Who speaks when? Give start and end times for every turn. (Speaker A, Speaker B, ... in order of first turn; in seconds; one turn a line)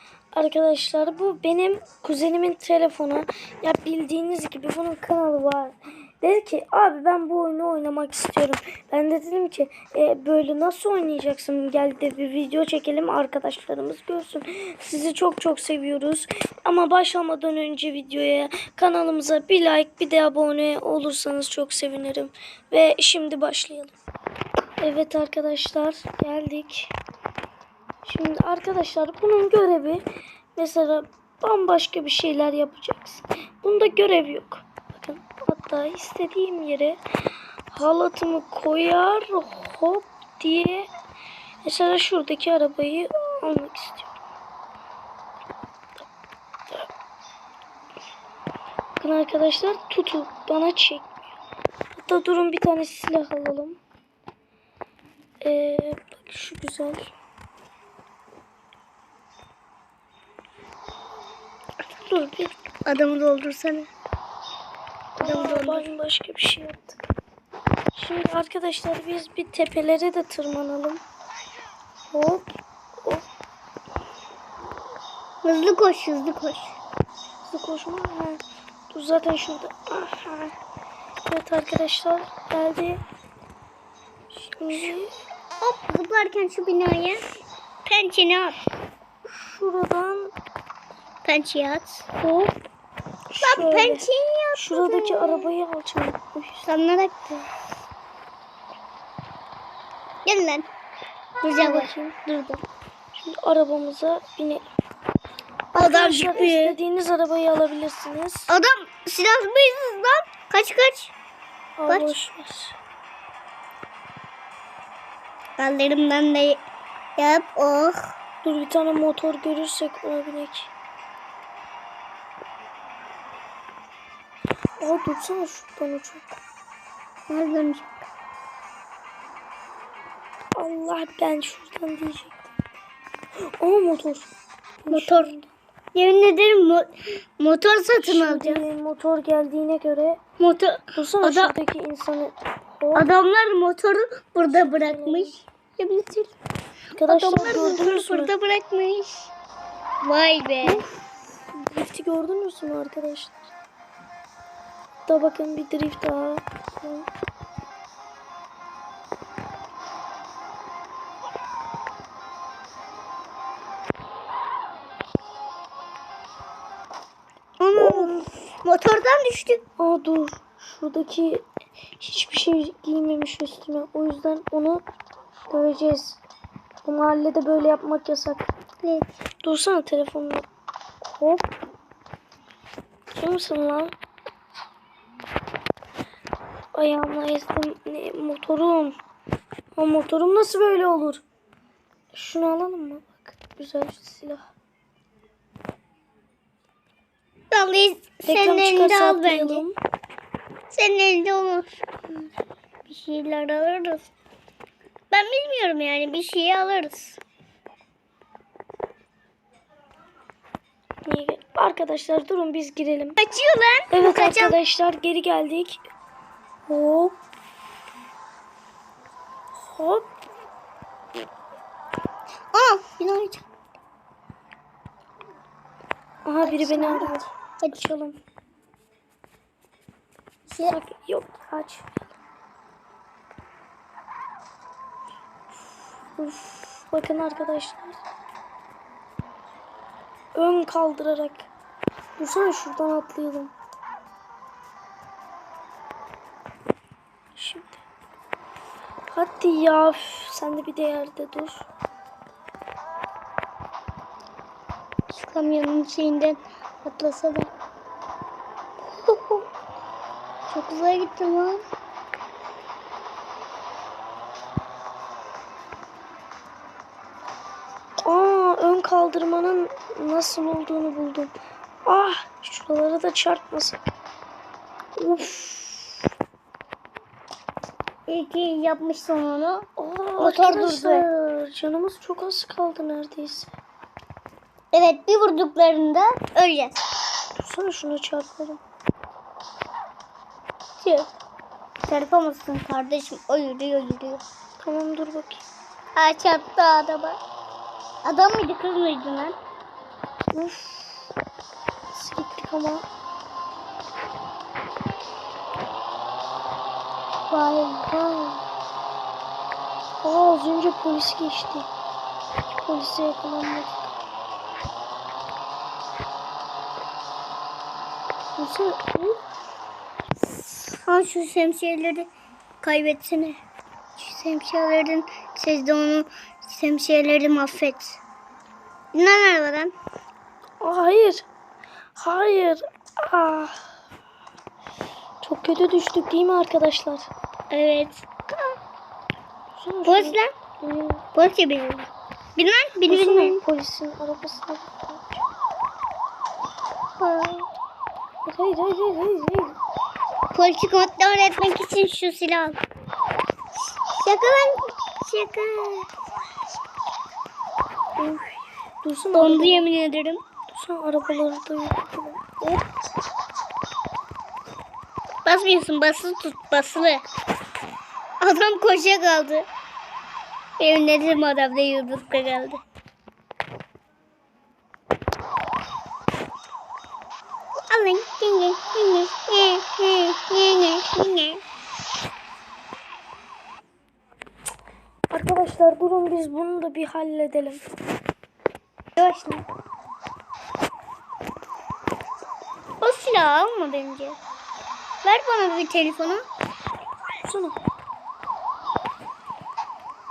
Speaker A: 0.3-23.9
Speaker A: 24.8-26.9
Speaker A: 28.0-30.0
Speaker A: 30.6-37.0
Speaker A: 37.7-40.9
Speaker A: 41.6-44.1
Speaker A: 49.0-51.1
Speaker A: 51.9-53.8
Speaker A: 55.4-57.1
Speaker A: 61.8-62.5
Speaker B: 62.9-63.9
Speaker A: 65.2-67.0
Speaker B: 65.2-65.9
Speaker A: 67.9-71.0
Speaker A: 72.1-72.5
Speaker B: 75.4-76.8
Speaker A: 77.5-80.5
Speaker A: 81.2-83.0
Speaker A: 84.3-85.1
Speaker B: 85.6-87.2
Speaker B: 87.9-88.6
Speaker A: 89.3-90.3
Speaker B: 91.2-92.1
Speaker A: 92.2-92.5
Speaker A: 93.3-96.7
Speaker B: 93.4-95.5
Speaker B: 96.7-97.5
Speaker B: 100.2-100.7
Speaker B: 101.4-102.6
Speaker A: 101.6-102.2
Speaker A: 103.1-104.7
Speaker B: 105.7-106.8
Speaker A: 105.8-108.5
Speaker B: 108.5-111.1
Speaker A: 111.8-112.8
Speaker B: 111.9-112.1
Speaker B: 115.6-116.6
Speaker B: 117.2-118.1
Speaker A: 118.4-120.7
Speaker A: 124.8-126.4
Speaker B: 127.3-127.9
Speaker A: 130.5-132.4
Speaker A: 133.6-135.5
Speaker B: 134.9-135.3
Speaker B: 135.9-138.6
Speaker A: 138.0-140.2
Speaker B: 140.4-141.5
Speaker A: 140.9-143.1
Speaker B: 142.9-146.3
Speaker A: 144.5-145.4
Speaker A: 146.9-148.3
Speaker B: 147.1-149.3
Speaker B: 150.0-150.8
Speaker A: 150.6-150.9
Speaker A: 151.6-153.4
Speaker A: 155.1-157.1
Speaker B: 167.6-169.6
Speaker A: 167.7-168.3
Speaker A: 169.8-171.4
Speaker A: 172.0-174.8
Speaker A: 175.5-176.2
Speaker A: 176.8-178.5
Speaker B: 178.8-179.1
Speaker A: 179.4-180.4
Speaker A: 181.1-181.4
Speaker A: 183.2-183.9
Speaker A: 186.7-189.0
Speaker A: 189.7-191.2
Speaker A: 192.1-194.5
Speaker B: 197.5-199.6
Speaker A: 198.2-199.8
Speaker B: 200.7-201.8
Speaker B: 202.9-204.1
Speaker B: 205.1-207.2
Speaker A: 211.0-213.2
Speaker B: 213.2-214.6
Speaker A: 213.9-215.8
Speaker A: 216.7-217.2
Speaker A: 219.7-220.1
Speaker B: 222.5-223.4
Speaker A: 226.2-228.2
Speaker B: 226.4-227.9
Speaker B: 230.5-230.8
Speaker A: 230.6-232.1
Speaker A: 236.1-238.0
Speaker A: 240.3-241.5
Speaker A: 242.2-243.5
Speaker A: 247.3-247.8
Speaker A: 249.1-251.7
Speaker B: 255.1-257.5
Speaker B: 258.9-259.4
Speaker B: 260.5-261.6
Speaker A: 268.0-271.3
Speaker A: 271.8-273.9
Speaker A: 275.0-275.9
Speaker B: 278.1-279.7
Speaker A: 279.8-283.5
Speaker B: 280.2-281.1
Speaker B: 284.7-286.8
Speaker A: 287.4-288.6
Speaker B: 290.8-291.1
Speaker B: 291.9-294.2
Speaker A: 294.6-295.4
Speaker B: 295.9-297.2
Speaker B: 298.0-299.4
Speaker A: 300.3-301.1
Speaker A: 301.9-302.9
Speaker B: 307.3-308.4
Speaker A: 310.0-311.7
Speaker A: 312.6-313.9
Speaker A: 318.4-319.2
Speaker B: 320.8-322.1
Speaker B: 322.6-323.4
Speaker B: 324.0-328.0
Speaker B: 328.9-329.7
Speaker A: 330.6-331.3
Speaker A: 331.9-333.6
Speaker A: 335.2-337.1
Speaker B: 337.5-338.4
Speaker A: 339.5-341.0
Speaker B: 339.8-340.3
Speaker B: 341.1-343.4
Speaker A: 342.9-345.2
Speaker B: 347.0-347.5
Speaker A: 348.2-349.6
Speaker B: 350.3-352.6
Speaker B: 353.9-355.9
Speaker A: 358.0-359.7
Speaker B: 359.1-360.2
Speaker A: 360.5-362.2
Speaker B: 365.2-367.0
Speaker B: 368.2-369.5
Speaker B: 370.6-372.6
Speaker B: 377.7-381.4
Speaker A: 385.1-387.6
Speaker B: 388.9-389.4
Speaker B: 392.8-394.2
Speaker B: 395.0-396.2
Speaker A: 397.2-397.6